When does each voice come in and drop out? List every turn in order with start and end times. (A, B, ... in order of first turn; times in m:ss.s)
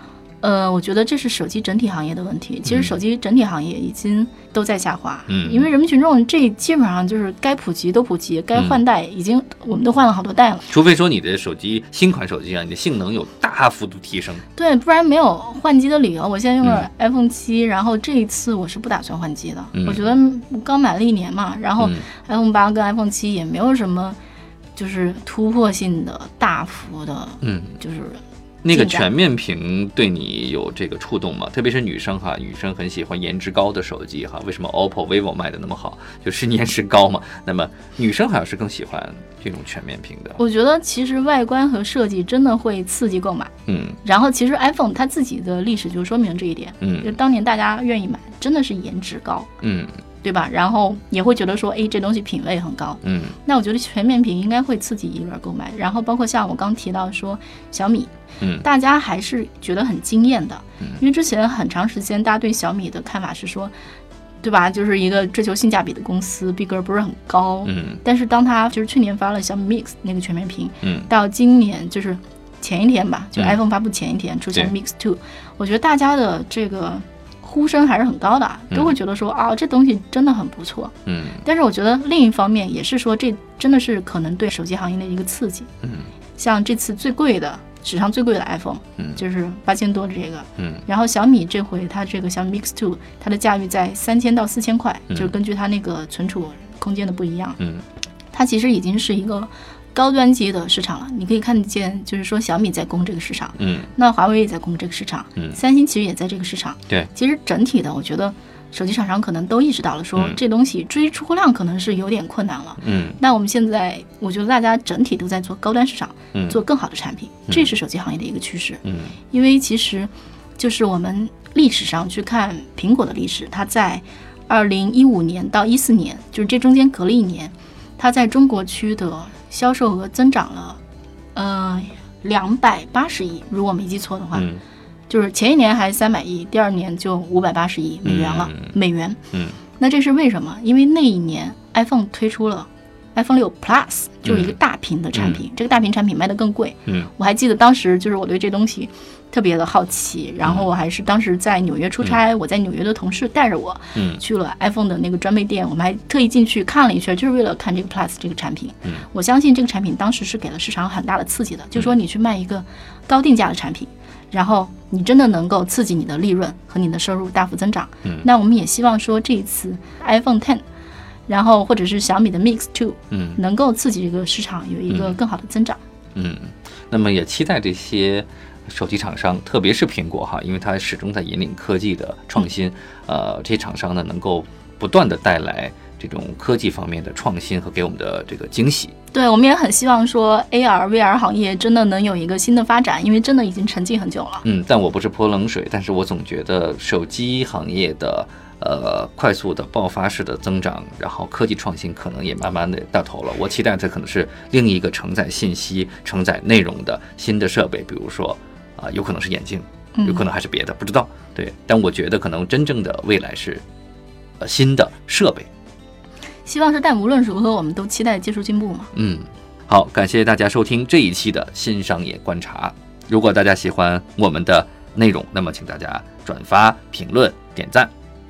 0:00.4-0:10.7 A
0:02.6-0:02.9 B
0:05.3-0:05.7 B
0:10.7-0:14.4 B
0:14.5-0:24.2 A
0:19.7-0:20.1 B
0:21.8-0:22.0 B
0:24.7-0:29.1 A
0:27.4-0:27.8 B
0:28.6-0:40.4 B
0:40.4-0:43.5 A
0:43.7-0:44.0 B
0:44.0-0:49.5 A
0:46.8-0:47.1 B
0:49.6-0:50.0 B
0:50.2-1:03.7 A
0:53.0-0:53.4 B
1:04.4-1:25.7 A
1:07.6-1:08.0 B
1:10.8-1:11.1 B
1:21.1-1:21.4 B
1:25.8-1:26.1 B
1:26.4-1:37.6 A
1:30.6-1:30.8 B
1:37.6-1:37.8 B
1:38.3-2:10.8 A
1:43.6-1:43.9 B
1:52.8-1:53.2 B
1:58.8-1:59.2 B
2:11.3-2:14.5 A
2:14.3-2:14.6 B
2:15.1-2:19.2 A
2:18.0-2:18.8 B
2:19.3-2:19.6 B
2:19.8-2:50.6 A
2:24.2-2:24.5 B
2:25.1-2:25.4 B
2:33.9-2:34.2 B
2:51.3-2:55.8 A
2:53.1-2:53.4 B
2:54.9-2:55.2 B
2:56.1-3:08.9 B
3:09.1-3:14.4 A
3:14.4-3:33.6 B
3:29.9-3:30.2 A
3:34.4-3:35.5 B
3:36.4-3:38.9 A
3:38.9-3:47.9 B